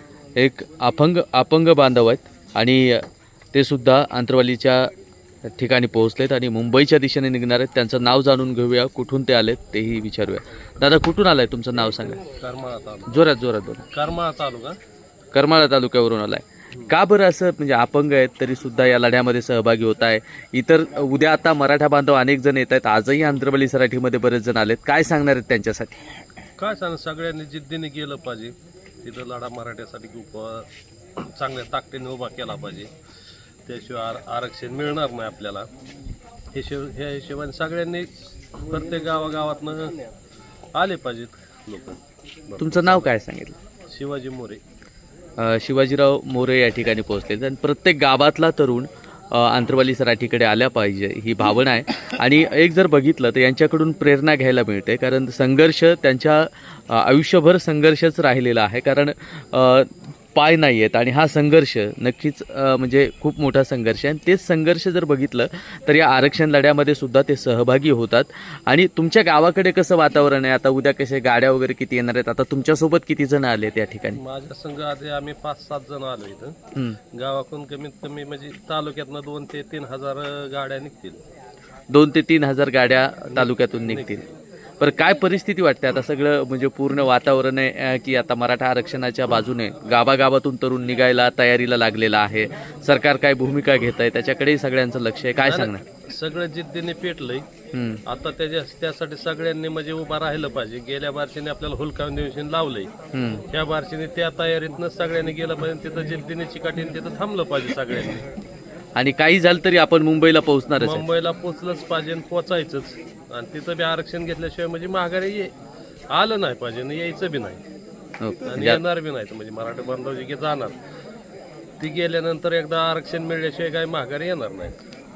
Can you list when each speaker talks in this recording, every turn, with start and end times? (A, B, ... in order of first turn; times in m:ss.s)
0:00.4-0:03.0 A
0:03.5-0:04.9 A
0:05.5-0:12.2 A
0:12.4-0:13.1 B
0:13.1-0:13.8 A
0:13.9-0:14.8 B
0:15.3-0:26.1 A
0:26.6-0:32.9 B
0:33.7-0:35.7 B
0:36.5-0:40.0 B
0:40.7-0:43.1 B
0:42.6-0:43.6 A
0:43.9-0:44.6 B
0:45.4-1:14.2 A
1:14.2-1:16.6 B
1:17.2-1:21.2 B
1:21.9-1:24.2 A
1:23.3-1:24.2 B
1:24.8-1:35.8 A
1:35.4-1:37.4 B
1:37.7-1:38.0 A
1:38.1-1:42.9 B
1:43.1-1:43.4 A
1:43.5-1:48.3 B
1:49.0-1:51.1 A
1:50.8-1:55.5 B
1:56.1-1:57.6 B
1:58.2-1:58.8 A
1:58.5-2:00.8 B
2:01.8-2:04.7 B